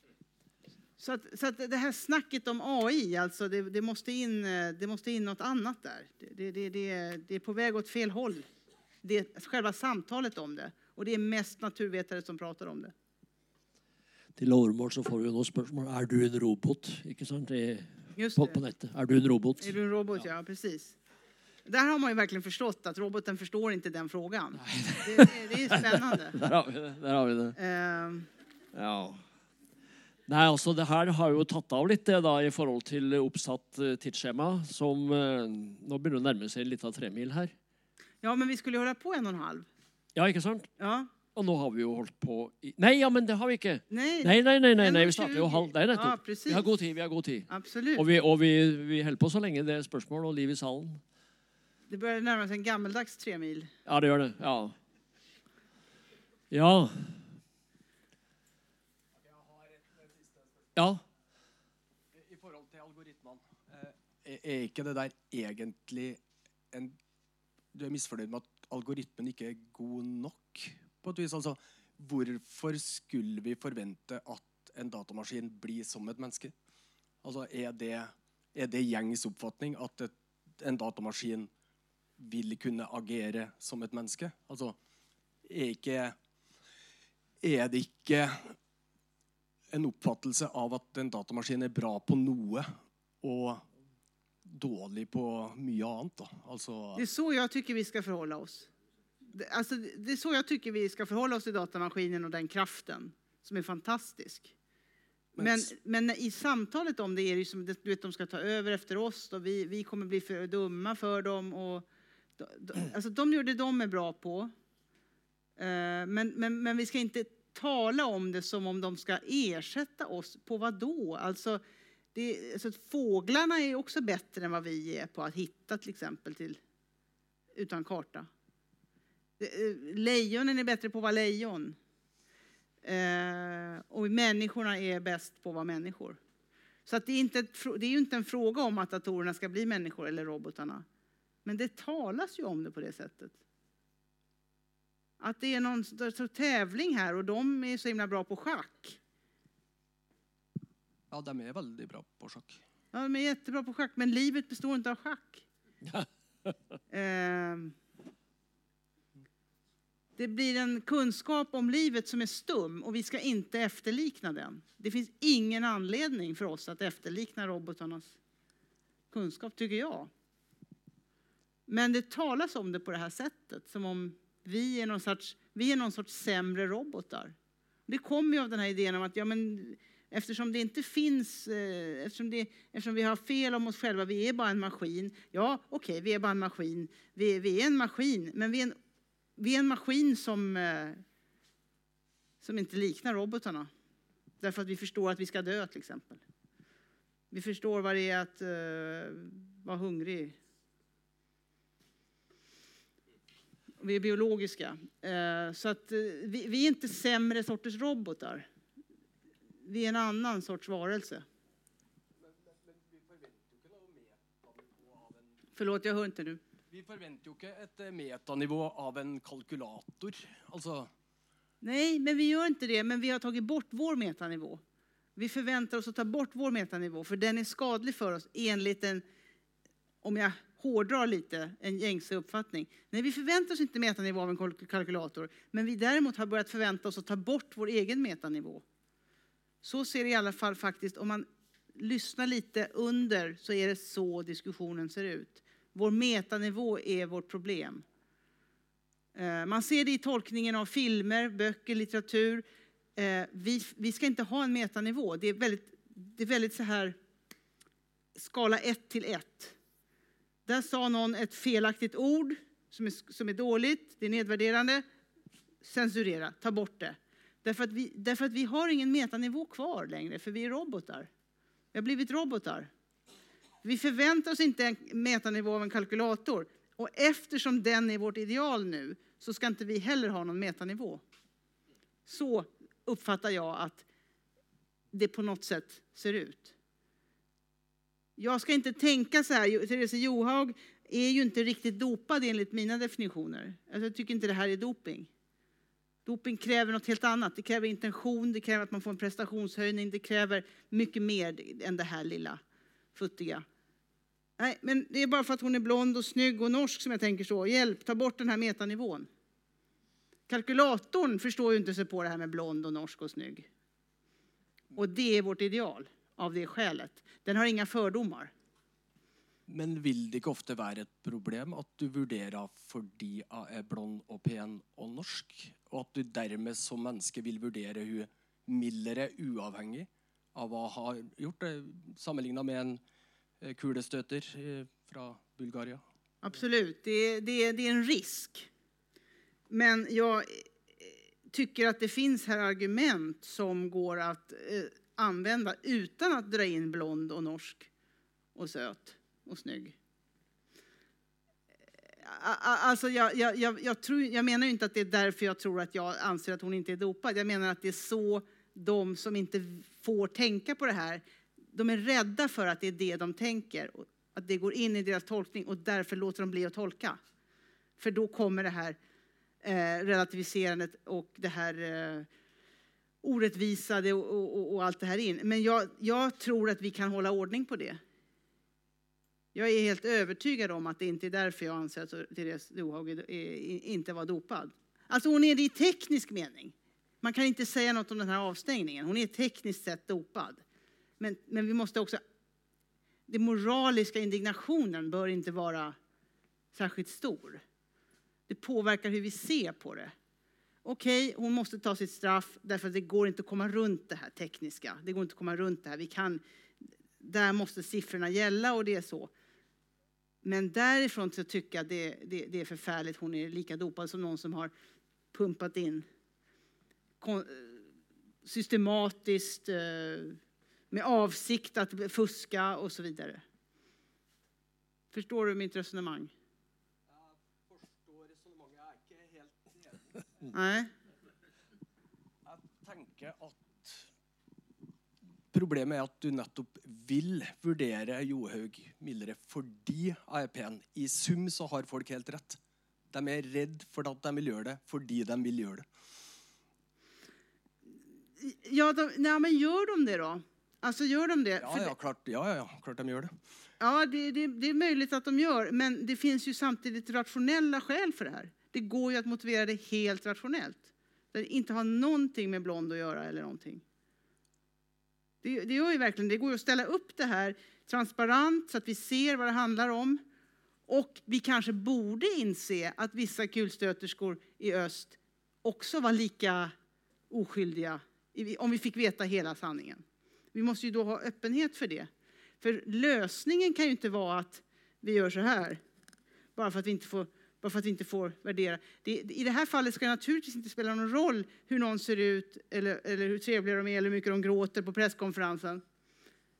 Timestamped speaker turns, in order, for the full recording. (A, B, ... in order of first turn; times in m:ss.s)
0:01.0-0:08.4 A
0:09.0-0:12.9 A
0:14.4-0:20.2 B
0:18.2-0:18.6 A
0:19.6-0:21.0 A
0:21.6-0:26.4 A
0:24.6-0:27.6 B
0:27.6-0:28.3 A
0:28.7-0:29.2 B
0:30.3-0:37.5 B
0:38.2-0:39.7 A
0:40.2-0:40.7 B
0:40.8-0:41.1 A
0:41.3-0:51.0 B
0:43.9-0:46.6 A
0:47.5-0:48.0 A
0:51.9-0:53.7 A
0:53.8-0:54.8 B
0:56.5-0:57.3 B
0:59.2-1:00.7 C
1:00.8-1:01.0 B
1:02.1-1:06.2 C
1:07.7-1:16.5 C
1:17.2-1:21.5 C
1:22.2-1:24.8 C
1:25.4-1:26.2 C
1:27.4-1:28.6 C
1:29.7-1:33.7 C
1:34.4-1:37.0 C
1:37.0-1:38.7 A
1:39.3-1:44.5 A
1:45.4-1:45.7 C
1:45.4-1:51.9 A
1:52.4-1:54.5 A
1:55.6-2:01.6 A
2:02.1-2:06.6 A
2:07.5-2:08.3 A
2:09.4-2:11.8 A
2:12.8-2:16.2 A
2:16.8-2:20.8 A
2:21.4-2:23.4 A
2:25.2-2:29.0 A
2:31.1-2:32.6 C
2:32.9-2:35.4 A
2:35.9-2:36.5 B
2:36.9-2:37.7 A
2:40.2-2:48.2 A
2:49.1-2:50.1 A
2:51.7-2:57.4 A
2:57.9-3:08.8 A
3:09.4-3:11.0 A
3:12.4-3:13.7 A
3:14.4-3:16.2 A
3:17.3-3:20.4 A
3:23.8-3:28.5 A
3:29.6-3:31.2 A
3:32.2-3:35.4 C
3:35.5-3:36.4 A
3:36.7-3:40.9 C
3:41.6-3:44.6 A
3:45.2-3:49.0 A
3:50.0-3:58.6 A
3:59.6-4:07.8 A
4:09.1-4:12.4 A
4:13.0-4:17.0 A
4:18.1-4:19.6 A
4:20.4-4:24.8 A
4:25.6-4:31.1 A
4:31.7-4:32.7 A
4:33.6-4:41.0 A
4:42.0-4:43.8 A
4:44.9-4:46.5 A
4:48.2-4:55.1 A
4:56.0-5:02.4 A
5:02.9-5:03.4 A
5:04.4-5:09.1 A
5:10.3-5:13.5 A
5:14.7-5:18.3 A
5:19.5-5:32.8 C
5:33.4-5:35.8 C
5:36.2-5:38.5 A
5:39.5-5:47.7 A
5:48.3-5:49.8 A
5:51.9-6:07.0 A
6:07.8-6:08.8 A
6:09.4-6:12.1 A
6:13.0-6:17.8 A
6:19.3-6:30.4 A
6:31.0-6:32.0 A
6:33.1-6:35.8 A
6:36.5-6:37.4 A
6:38.3-6:39.9 A
6:40.6-6:46.2 A
6:47.0-6:49.1 A
6:50.2-6:54.5 A
6:55.1-6:55.8 A
6:57.0-6:57.7 A
6:58.2-7:00.2 A
7:00.7-7:03.2 A
7:04.9-7:06.1 A
7:06.9-7:10.3 C
7:10.3-7:10.7 A
7:12.2-7:13.9 C
7:15.3-7:22.4 C
7:22.9-7:25.6 C
7:28.2-7:31.7 A
7:31.4-7:33.2 C
7:33.6-7:43.6 A
7:45.2-7:50.0 A
7:50.7-7:56.5 A
7:57.1-8:01.9 A
8:02.4-8:05.6 A
8:06.4-8:15.6 A